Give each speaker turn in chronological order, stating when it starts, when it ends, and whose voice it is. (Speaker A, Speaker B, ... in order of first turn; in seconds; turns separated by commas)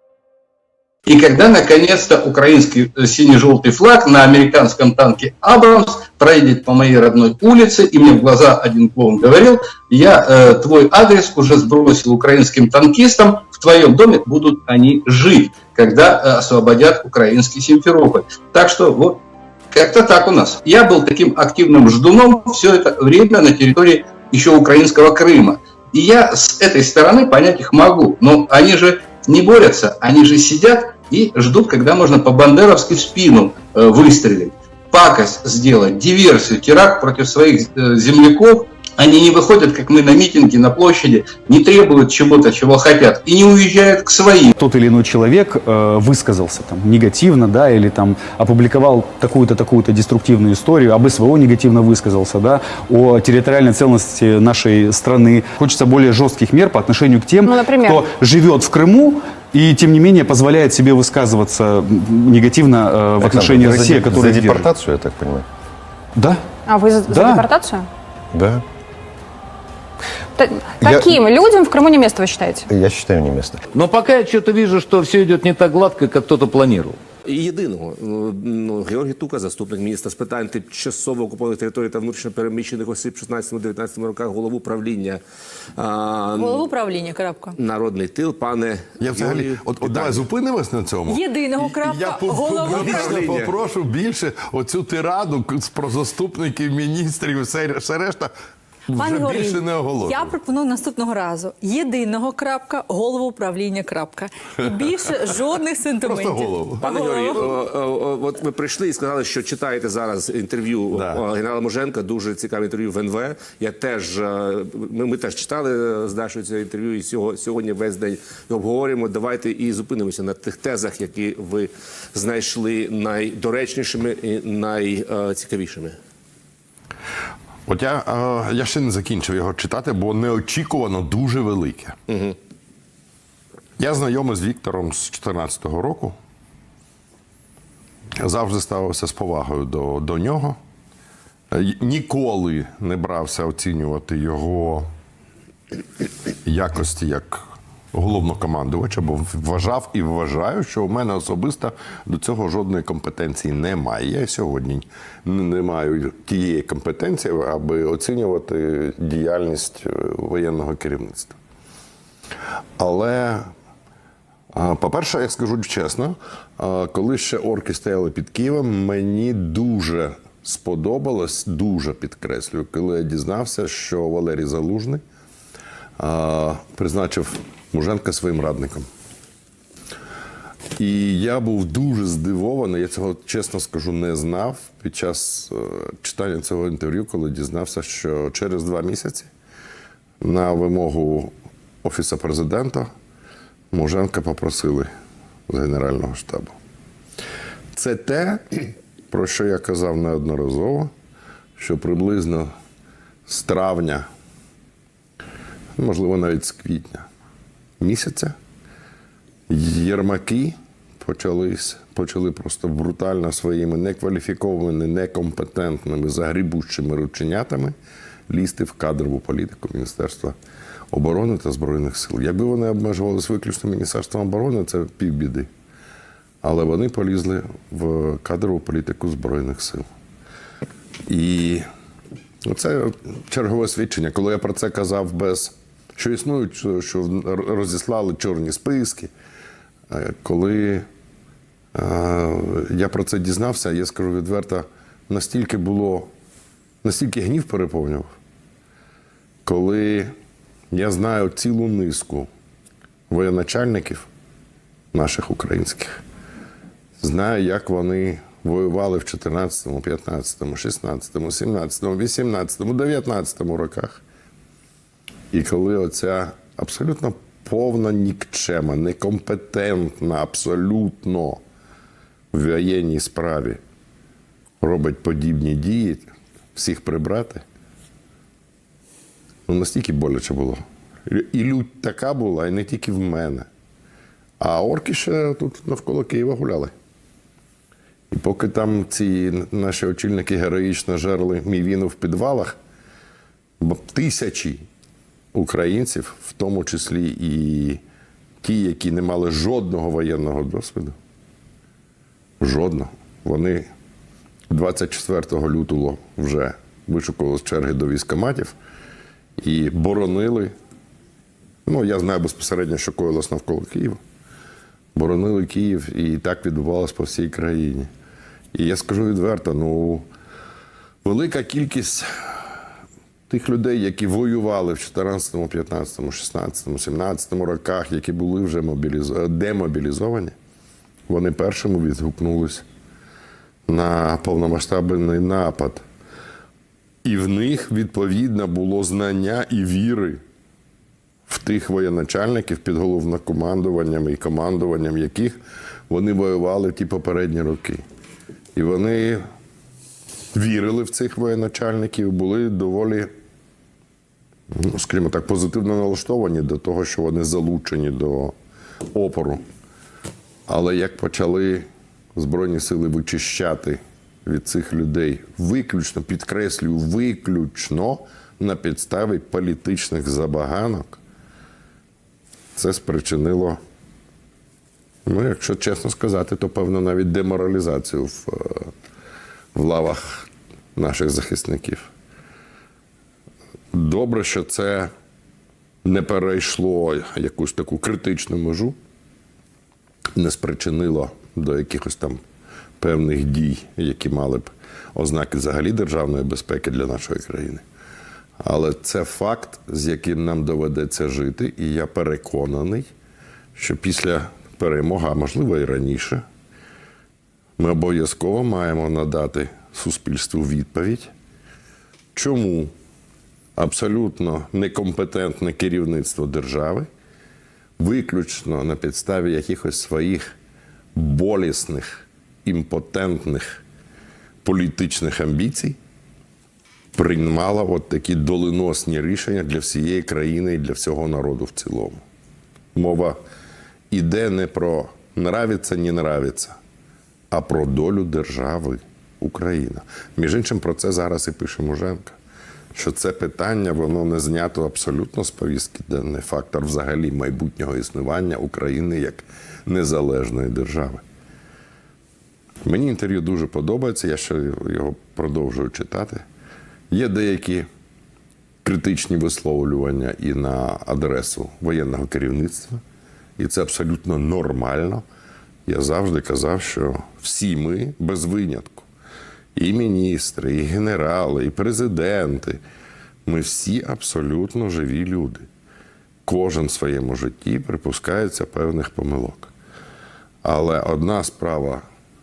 Speaker A: 1.1-44.5, Speaker B: 44.6-64.7, Speaker C: 57.5-58.0, Speaker D: 63.2-65.5, Speaker B: 66.2-66.4, Speaker C: 66.7-67.9, Speaker B: 67.1-67.5, Speaker D: 68.3-68.7, Speaker C: 70.4-72.7, Speaker D: 70.8-71.2, Speaker D: 72.7-73.7, Speaker E: 73.7-77.0, Speaker F: 77.3-85.2, Speaker F: 85.8-86.8, Speaker G: 86.4-87.6, Speaker F: 87.6-90.3, Speaker H: 89.0-98.3, Speaker G: 91.1-93.0, Speaker F: 92.7-93.5, Speaker H: 98.9-100.3, Speaker G: 98.9-107.4, Speaker H: 106.0-106.8, Speaker F: 106.8-126.0, Speaker H: 110.9-111.2, Speaker H: 127.7-132.0, Speaker F: 132.1-132.4, Speaker H: 133.8-136.2, Speaker H: 138.2-140.6, Speaker H: 141.5-144.9, Speaker H: 146.4-161.4, Speaker H: 162.8-163.5, Speaker H: 164.5-175.0, Speaker H: 176.0-178.9, Speaker H: 180.8-189.3, Speaker H: 190.2-191.3, Speaker H: 191.8-192.9, Speaker H: 193.7-194.9, Speaker H: 195.5-196.6, Speaker H: 197.7-198.6, Speaker H: 199.1-200.9, Speaker H: 201.6-202.5, Speaker H: 203.3-204.1, Speaker H: 205.8-207.1, Speaker H: 207.8-208.3, Speaker H: 209.5-217.7, Speaker H: 218.3-220.3, Speaker H: 220.9-225.5, Speaker H: 226.4-229.8, Speaker H: 231.1-231.6, Speaker H: 232.5-239.1, Speaker H: 239.9-240.9, Speaker H: 241.8-246.1, Speaker H: 246.8-248.1, Speaker H: 249.4-250.1, Speaker H: 250.7-252.3, Speaker H: 253.1-254.1, Speaker H: 254.9-255.9, Speaker H: 257.0-264.0, Speaker H: 265.3-271.4, Speaker H: 272.3-273.6, Speaker H: 274.6-277.4, Speaker H: 279.5-283.5, Speaker H: 284.4-286.7, Speaker H: 288.1-292.6, Speaker H: 293.6-294.6, Speaker H: 295.3-297.8, Speaker H: 298.4-301.0, Speaker H: 302.4-303.7, Speaker H: 304.5-308.6, Speaker H: 309.4-310.5, Speaker H: 311.7-314.0, Speaker H: 314.9-317.9, Speaker H: 318.5-320.1, Speaker H: 321.0-322.1, Speaker H: 323.3-330.4, Speaker H: 331.1-332.6, Speaker H: 333.7-335.8, Speaker H: 337.0-340.2, Speaker H: 341.3-345.4, Speaker H: 345.9-347.8, Speaker H: 348.6-349.2, Speaker H: 350.3-353.1, Speaker H: 354.5-358.4, Speaker H: 358.9-359.4, Speaker H: 360.5-371.0, Speaker H: 372.6-373.6, Speaker H: 375.1-378.7, Speaker H: 379.5-381.9, Speaker H: 383.7-384.9, Speaker H: 385.8-388.8, Speaker H: 390.2-392.2, Speaker H: 392.8-397.6, Speaker H: 398.4-402.9, Speaker H: 403.6-406.2, Speaker H: 407.6-411.1, Speaker H: 412.1-412.7, Speaker H: 413.6-416.9, Speaker H: 417.8-420.2, Speaker H: 420.9-423.6, Speaker H: 424.4-425.8, Speaker H: 426.9-432.0, Speaker H: 432.8-433.2, Speaker H: 433.9-436.6, Speaker H: 437.3-442.2, Speaker H: 442.7-451.0, Speaker H: 452.6-456.2, Speaker H: 456.9-457.7, Speaker H: 458.6-462.8, Speaker H: 463.4-465.0, Speaker H: 465.7-468.9, Speaker H: 469.6-472.6, Speaker H: 473.3-475.4, Speaker H: 476.2-479.5, Speaker H: 480.4-481.8